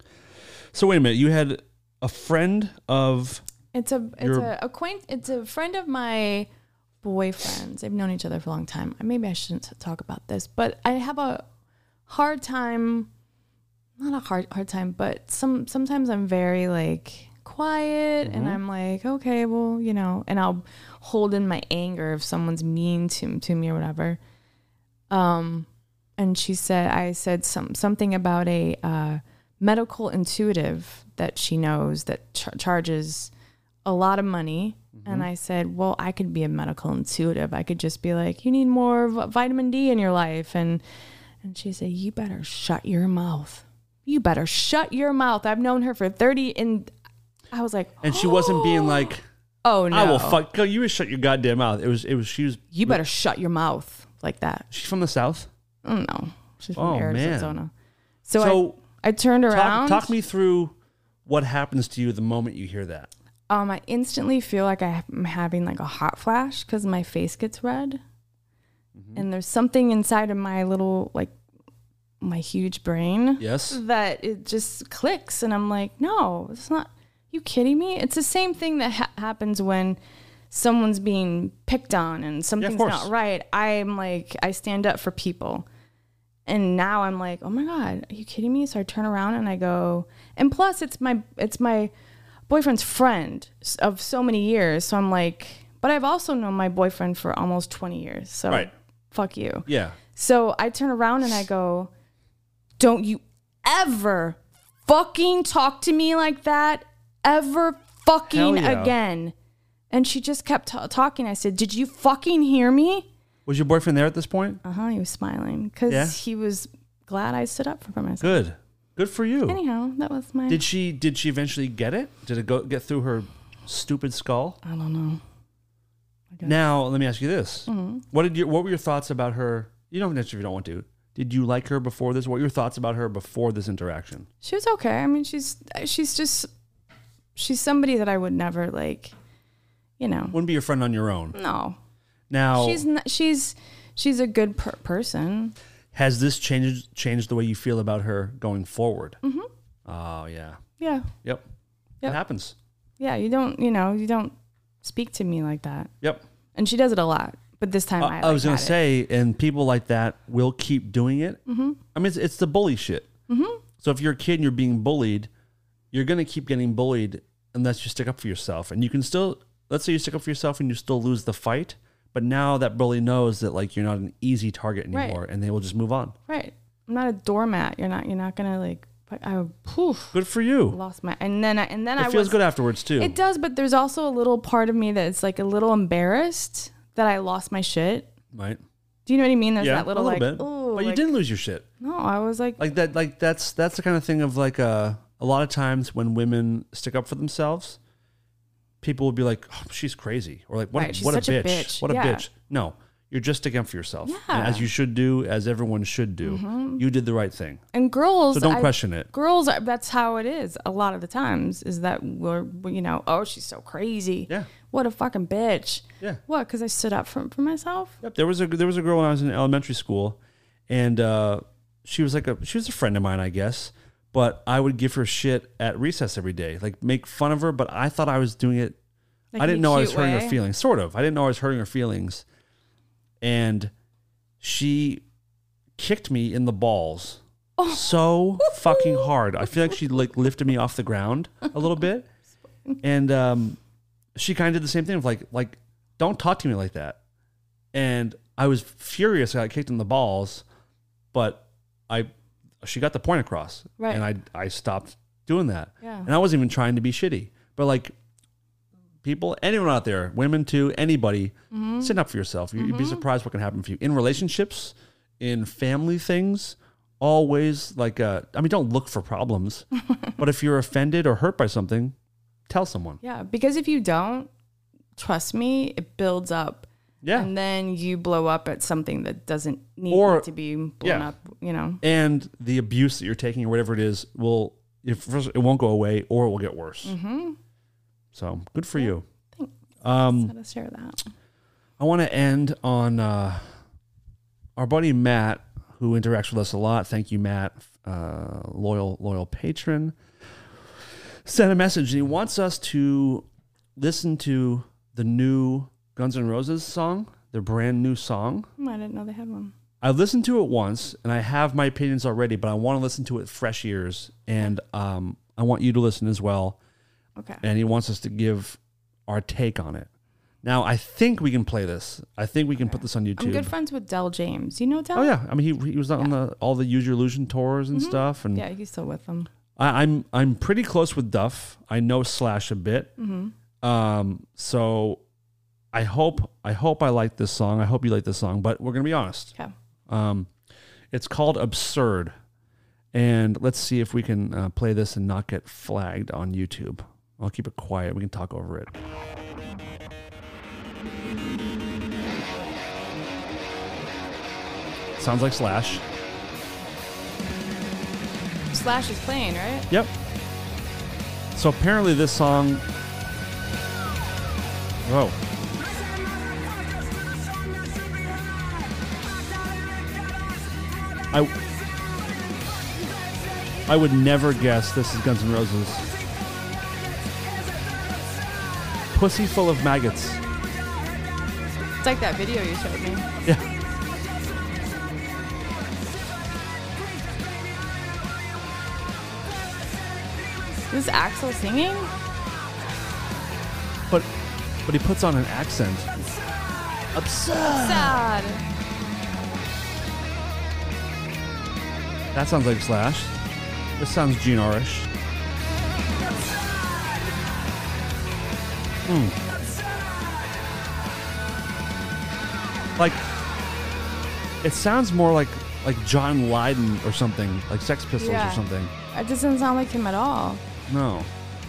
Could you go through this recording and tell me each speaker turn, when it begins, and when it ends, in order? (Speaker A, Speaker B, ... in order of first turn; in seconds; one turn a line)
Speaker A: 0.7-3.4
Speaker B: 3.7-6.5
Speaker A: 4.2-4.5
Speaker B: 7.0-11.5
Speaker B: 12.1-13.1
Speaker B: 14.0-24.2
Speaker A: 18.2-18.6
Speaker B: 25.1-25.7
Speaker B: 26.2-33.3
Speaker B: 33.8-40.8
Speaker A: 34.9-35.3
Speaker B: 41.4-46.9
Speaker B: 47.5-49.1
Speaker A: 48.0-49.2
Speaker B: 49.6-50.4
Speaker A: 49.9-53.0
Speaker B: 52.7-54.6
Speaker A: 54.7-55.5
Speaker B: 55.8-57.7
Speaker A: 56.8-57.6
Speaker B: 58.2-60.1
Speaker A: 58.4-58.8
Speaker A: 59.5-60.7
Speaker A: 61.2-63.1
Speaker B: 63.5-68.0
Speaker A: 68.9-69.2
Speaker B: 69.1-71.3
Speaker B: 72.2-80.0
Speaker A: 73.4-73.8
Speaker B: 80.5-85.7
Speaker A: 82.6-83.1
Speaker B: 86.5-91.9
Speaker B: 92.5-101.9
Speaker A: 99.7-100.0
Speaker B: 102.8-109.3
Speaker A: 108.3-108.9
Speaker B: 109.9-113.1
Speaker A: 113.5-114.6
Speaker B: 114.6-118.4
Speaker A: 115.9-116.2
Speaker A: 118.2-119.6
Speaker B: 119.5-120.6
Speaker A: 120.5-124.6
Speaker B: 124.6-125.2
Speaker A: 126.4-134.3
Speaker B: 127.7-128.0
Speaker B: 134.4-136.5
Speaker B: 137.3-139.1
Speaker B: 140.0-140.3
Speaker A: 140.3-141.4
Speaker B: 141.3-141.8
Speaker A: 142.3-142.8
Speaker B: 142.5-145.5
Speaker A: 145.9-149.2
Speaker B: 149.2-149.5
Speaker A: 149.8-150.6
Speaker B: 150.8-151.1
Speaker A: 152.0-152.6
Speaker B: 153.0-155.9
Speaker B: 156.5-158.8
Speaker A: 158.0-161.4
Speaker B: 161.5-161.8
Speaker A: 161.9-163.1
Speaker B: 163.3-163.6
Speaker A: 163.8-165.3
Speaker A: 165.9-176.1
Speaker B: 174.9-175.2
Speaker B: 176.3-180.2
Speaker A: 180.1-180.8
Speaker B: 180.7-182.4
Speaker A: 182.0-183.1
Speaker B: 183.0-188.1
Speaker A: 188.3-188.6
Speaker B: 189.1-191.1
Speaker A: 189.6-191.7
Speaker B: 191.8-192.6
Speaker A: 192.6-197.8
Speaker A: 198.8-207.6
Speaker B: 200.7-202.2
Speaker B: 204.0-204.7
Speaker B: 206.2-206.8
Speaker B: 207.7-218.0
Speaker A: 208.3-209.1
Speaker A: 218.0-228.8
Speaker B: 229.3-230.4
Speaker A: 229.3-232.2
Speaker A: 233.2-233.7
Speaker A: 234.4-235.0
Speaker A: 235.8-242.1
Speaker B: 237.6-239.1
Speaker A: 242.8-243.6
Speaker A: 244.1-247.0
Speaker A: 247.7-250.4
Speaker A: 251.1-252.1
Speaker A: 252.6-257.9
Speaker B: 253.8-254.0
Speaker B: 255.8-256.1
Speaker A: 259.0-269.7
Speaker B: 261.5-262.0
Speaker B: 262.6-263.0
Speaker A: 270.2-271.9
Speaker A: 272.5-273.0
Speaker B: 273.0-274.3
Speaker B: 275.0-281.8
Speaker A: 277.0-277.3
Speaker A: 279.9-280.3
Speaker A: 280.8-281.1
Speaker A: 281.8-286.9
Speaker B: 286.8-287.4
Speaker A: 288.1-289.0
Speaker B: 288.8-291.1
Speaker A: 289.8-290.3
Speaker A: 291.8-293.5
Speaker A: 294.6-299.9
Speaker A: 301.2-308.5
Speaker B: 308.6-309.5
Speaker A: 309.8-316.6
Speaker B: 317.2-317.4
Speaker A: 317.4-319.9
Speaker A: 320.4-323.5
Speaker B: 322.6-325.1
Speaker A: 324.9-328.4
Speaker B: 327.7-329.3
Speaker A: 329.6-332.9
Speaker B: 333.0-333.3
Speaker A: 333.6-335.0
Speaker A: 335.7-339.3
Speaker A: 339.9-340.3
Speaker A: 340.9-342.1
Speaker A: 342.9-348.7
Speaker A: 355.0-355.8
Speaker B: 358.5-359.7
Speaker A: 361.3-362.6
Speaker A: 364.8-365.2
Speaker A: 373.7-375.9
Speaker A: 378.9-380.2
Speaker B: 381.8-383.1
Speaker B: 390.7-391.9
Speaker A: 394.6-395.9
Speaker A: 396.9-398.0
Speaker B: 397.6-398.4
Speaker A: 402.1-403.1
Speaker A: 403.8-404.9
Speaker A: 408.8-409.2
Speaker A: 412.8-413.1
Speaker A: 414.4-418.7
Speaker B: 418.0-420.4
Speaker A: 420.7-421.1